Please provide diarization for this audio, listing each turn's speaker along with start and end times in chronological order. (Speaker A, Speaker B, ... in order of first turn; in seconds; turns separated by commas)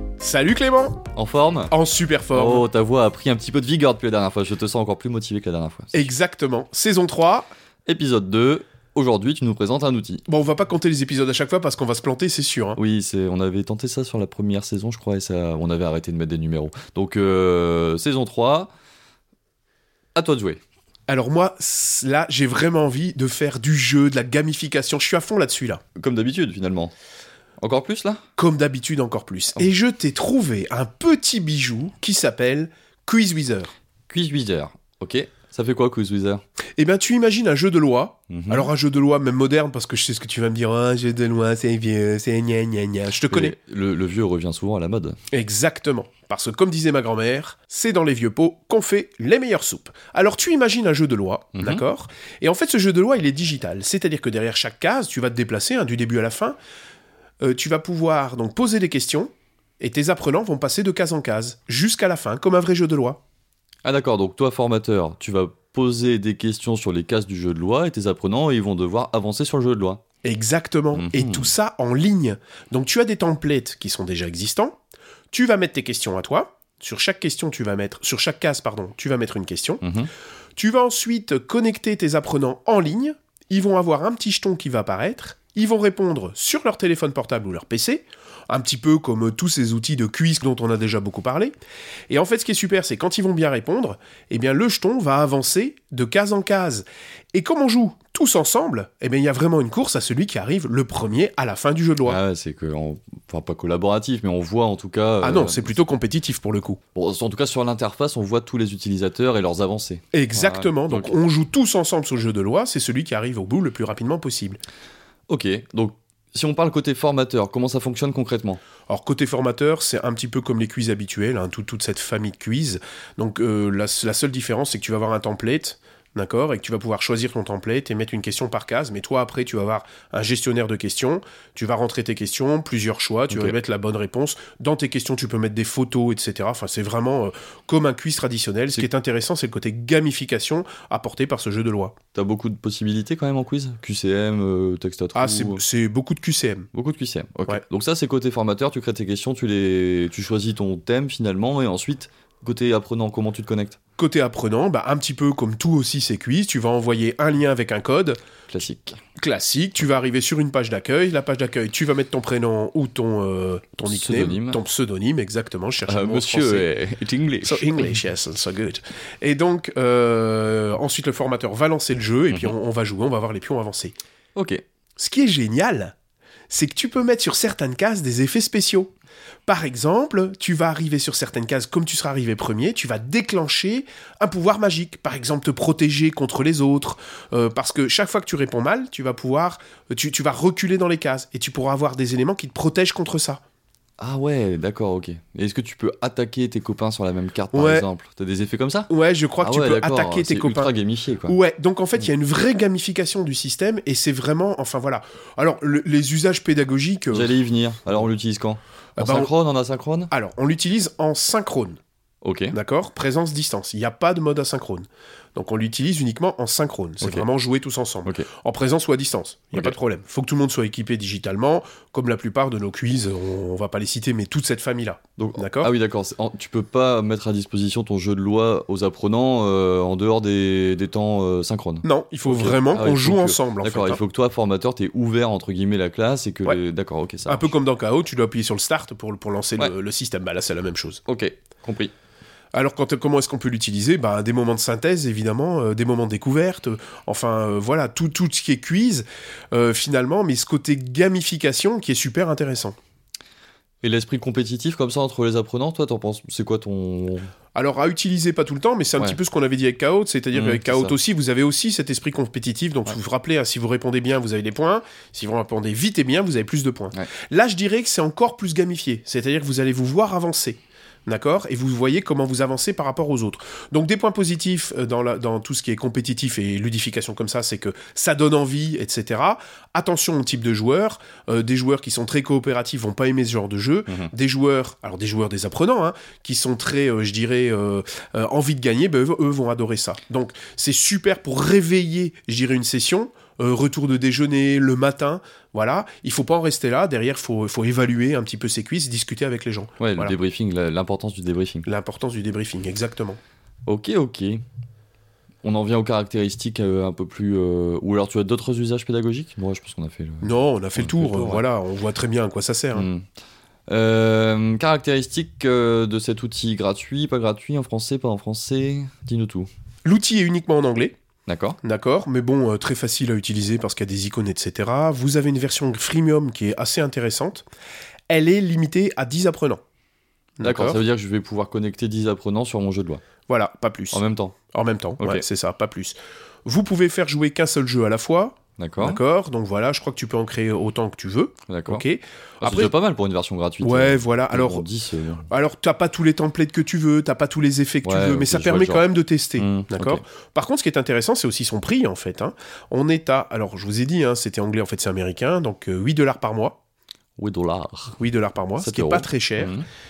Speaker A: 0.2-1.0, Speaker B: 1.1-1.7, Speaker A: 1.7-2.6, Speaker B: 2.3-5.9, Speaker A: 5.9-7.5, Speaker B: 7.8-10.2, Speaker A: 10.3-12.8, Speaker B: 12.8-18.7, Speaker B: 20.1-20.6, Speaker A: 21.1-25.8, Speaker B: 25.9-26.9, Speaker B: 27.6-28.2, Speaker A: 28.4-33.7, Speaker B: 34.1-36.4, Speaker A: 36.8-43.5, Speaker B: 38.3-38.7, Speaker B: 43.3-45.2, Speaker A: 45.3-56.6, Speaker B: 51.5-51.8, Speaker A: 57.4-63.2, Speaker B: 63.8-70.0, Speaker A: 70.2-74.8, Speaker B: 70.9-71.5, Speaker A: 75.3-79.8, Speaker B: 79.8-80.1, Speaker A: 80.6-91.5, Speaker A: 92.1-102.2, Speaker B: 102.0-105.8, Speaker A: 105.2-106.8, Speaker B: 106.9-111.2, Speaker A: 110.1-114.6, Speaker B: 115.3-118.6, Speaker A: 118.9-141.9, Speaker B: 133.3-133.6, Speaker B: 142.1-145.6, Speaker A: 145.2-146.7, Speaker B: 146.7-153.8, Speaker A: 154.0-158.2, Speaker B: 158.5-159.0, Speaker A: 159.2-166.7, Speaker B: 163.8-164.6, Speaker B: 165.8-167.9, Speaker A: 167.4-173.9, Speaker B: 174.3-174.6, Speaker A: 175.0-175.9, Speaker A: 176.5-178.9, Speaker A: 179.5-193.4, Speaker B: 194.0-201.4, Speaker A: 197.5-197.8, Speaker A: 198.9-200.7, Speaker A: 201.3-207.3, Speaker B: 207.1-210.1, Speaker A: 209.0-209.3, Speaker A: 210.1-211.8, Speaker B: 212.2-212.6, Speaker A: 212.5-225.7, Speaker B: 217.0-217.3, Speaker B: 225.2-237.5, Speaker A: 231.8-234.0, Speaker A: 237.3-241.0, Speaker B: 241.1-241.9, Speaker A: 242.5-252.8, Speaker B: 253.8-257.3, Speaker A: 257.5-300.1, Speaker B: 260.3-261.0, Speaker B: 283.9-284.1, Speaker B: 299.8-301.7, Speaker A: 301.6-303.2, Speaker B: 303.7-304.4, Speaker B: 305.4-311.4, Speaker A: 310.2-312.9, Speaker B: 312.7-313.1, Speaker B: 313.7-319.5, Speaker A: 319.8-320.9, Speaker B: 321.2-321.6, Speaker A: 321.6-327.4, Speaker A: 328.1-329.6, Speaker A: 330.4-330.8, Speaker B: 330.4-333.0, Speaker A: 333.3-342.7, Speaker B: 333.9-334.4, Speaker B: 335.0-335.2, Speaker B: 338.6-339.0, Speaker B: 341.5-341.8, Speaker B: 342.4-345.3, Speaker A: 343.6-344.7, Speaker A: 345.3-356.6, Speaker B: 347.8-348.8, Speaker B: 349.4-350.0, Speaker B: 357.2-358.0, Speaker A: 358.0-359.5, Speaker B: 358.6-359.7